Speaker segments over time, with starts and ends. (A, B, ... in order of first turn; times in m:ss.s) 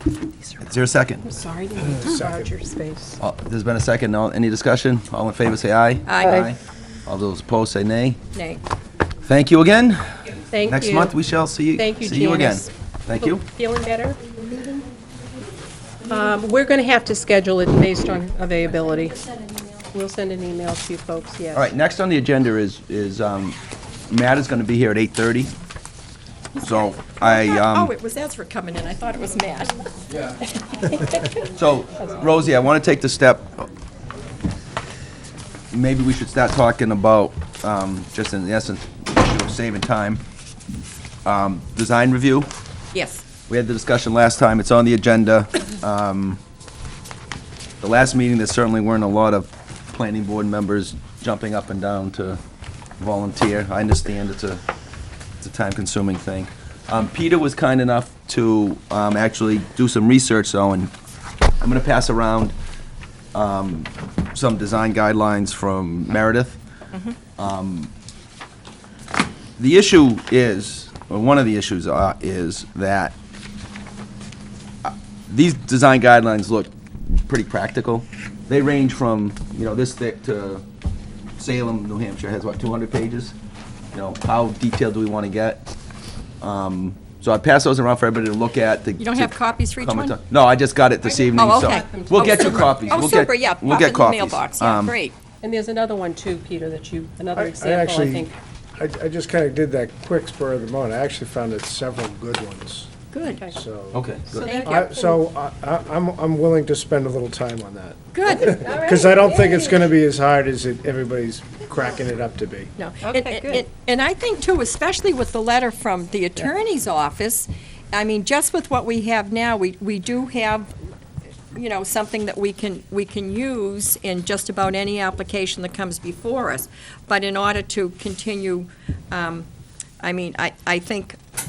0:00.6-0:01.3 A
0:01.2-0:03.2 B
0:01.9-0:02.5 C
0:03.2-0:08.2 A
0:06.0-0:06.5 D
0:08.3-0:08.6 D
0:09.2-0:13.4 A
0:10.5-0:11.2 B
0:11.7-0:14.2 B
0:16.0-0:19.3 B
0:19.9-0:21.7 B
0:21.5-0:23.6 A
0:24.1-0:25.5 A
0:26.6-0:29.8 D
0:26.6-0:27.9 A
0:30.7-0:31.3 D
0:31.5-0:33.7 A
0:35.7-0:40.2 A
0:41.2-0:42.5 A
0:42.9-0:43.2 D
0:43.5-0:46.4 A
0:47.8-0:52.4 A
0:53.0-0:54.6 A
0:55.4-1:00.9 A
1:01.6-1:02.5 A
1:03.3-1:06.6 A
1:07.4-1:07.9 A
1:09.6-1:13.1 A
1:14.8-1:20.6 A
1:21.4-1:23.3 A
1:23.9-1:25.7 A
1:26.4-1:34.9 A
1:29.0-1:30.2 D
1:31.0-1:33.2 B
1:31.3-1:35.1 D
1:35.4-1:38.3 B
1:37.3-1:42.9 C
1:43.1-1:43.4 D
1:43.3-1:43.6 B
1:43.5-1:44.0 C
1:43.9-1:44.5 A
1:44.3-1:44.9 D
1:44.4-1:45.2 B
1:44.5-1:52.7 C
1:48.1-1:48.7 D
1:48.4-1:49.9 B
1:52.8-2:00.7 D
1:53.0-1:53.6 B
2:01.5-2:09.5 D
2:10.0-2:11.2 D